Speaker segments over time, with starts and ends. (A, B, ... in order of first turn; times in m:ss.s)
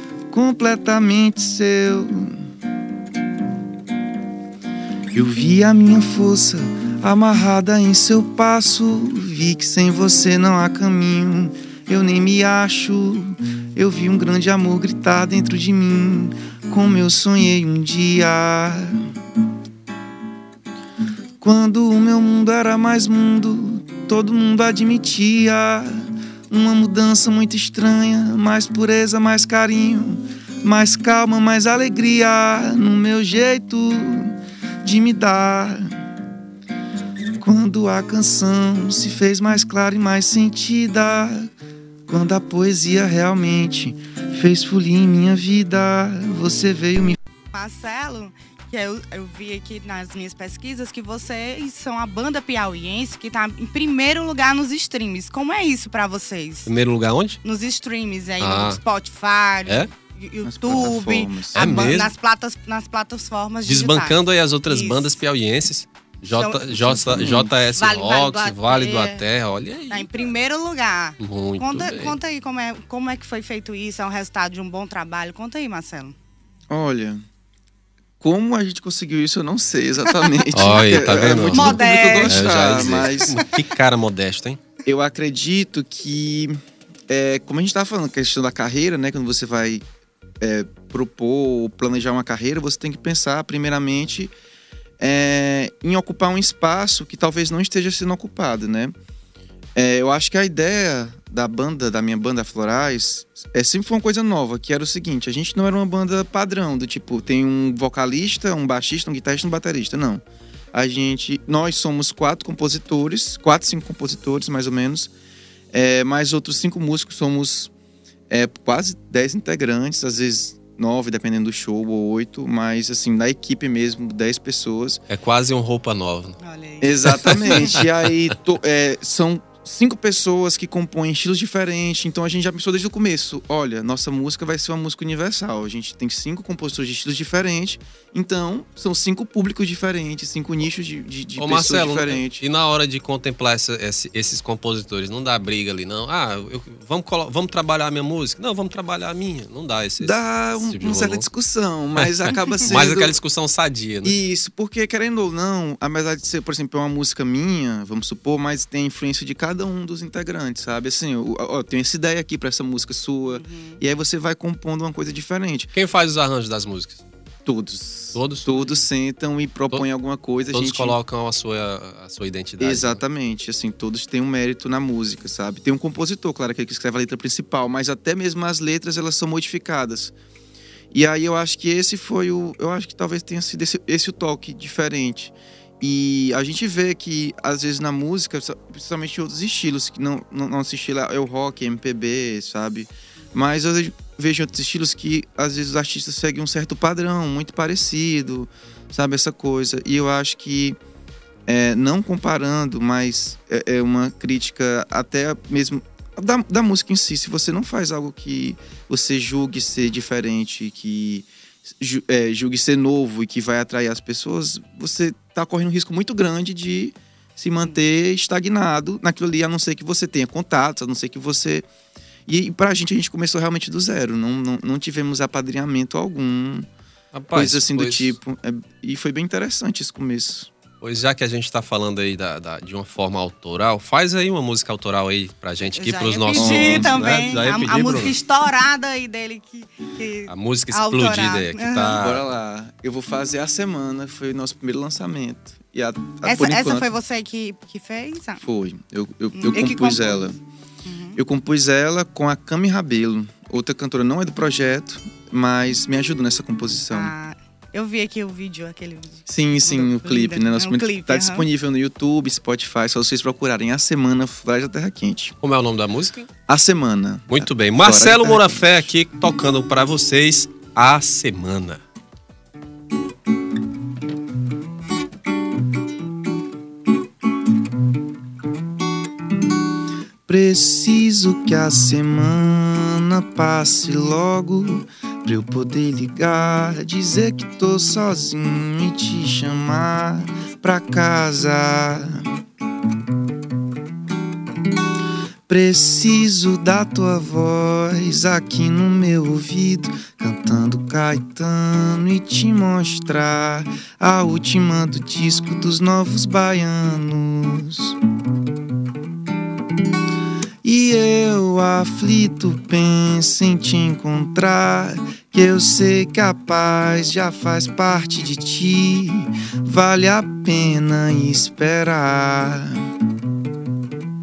0:00.3-0:02.4 A
0:05.1-0:18.9 A
0:21.4-0:36.0 A
0:37.4-0:41.5 A
0:42.1-0:47.2 A
0:47.5-0:56.7 B
0:56.6-0:57.4 C
0:57.4-1:05.2 B
0:58.4-0:58.8 C
1:00.4-1:02.0 A
1:01.5-1:02.1 C
1:03.6-1:10.3 C
1:06.3-1:09.2 B
1:07.1-1:07.6 A
1:09.9-1:16.1 B
1:11.2-1:12.2 C
1:16.7-1:17.2 A
1:18.2-1:23.4 A
1:20.5-1:24.6 C
1:21.5-1:22.7 B
1:24.8-1:26.5 A
1:27.1-1:29.8 A
1:30.4-1:34.3 A
1:35.0-1:38.9 A
1:39.8-1:55.1 A
1:55.7-1:57.7 A
1:58.3-2:05.0 A
2:05.1-2:06.4 C
2:06.4-2:07.7 B
2:06.8-2:22.4 A
2:07.1-2:07.8 C
2:21.4-2:31.2 C
2:30.0-2:33.2 A
2:32.7-2:34.2 C
2:34.0-2:45.7 A
2:43.3-2:43.8 B
2:45.7-2:47.0 C
2:47.4-2:51.0 A
2:48.1-2:48.5 C
2:50.5-2:53.0 C
2:52.6-3:00.1 A
3:00.9-3:20.8 A
3:21.5-3:31.3 A
3:31.8-3:41.7 A
3:42.3-3:46.7 A
3:47.1-3:48.2 C
3:47.3-3:50.5 A
3:50.8-3:58.2 C
3:55.7-4:02.0 B
3:56.3-3:57.0 A
4:00.3-4:02.2 C
4:02.0-4:06.9 A
4:06.2-4:08.4 B
4:08.4-4:10.4 A
4:09.3-4:10.2 B
4:10.8-4:11.2 B
4:11.2-4:17.1 A
4:16.9-4:21.5 B
4:19.3-4:25.3 A
4:25.4-4:26.3 C
4:26.5-4:28.9 A
4:27.3-4:31.8 C
4:40.3-4:52.2 A
4:55.5-5:08.0 A
5:10.6-5:22.8 A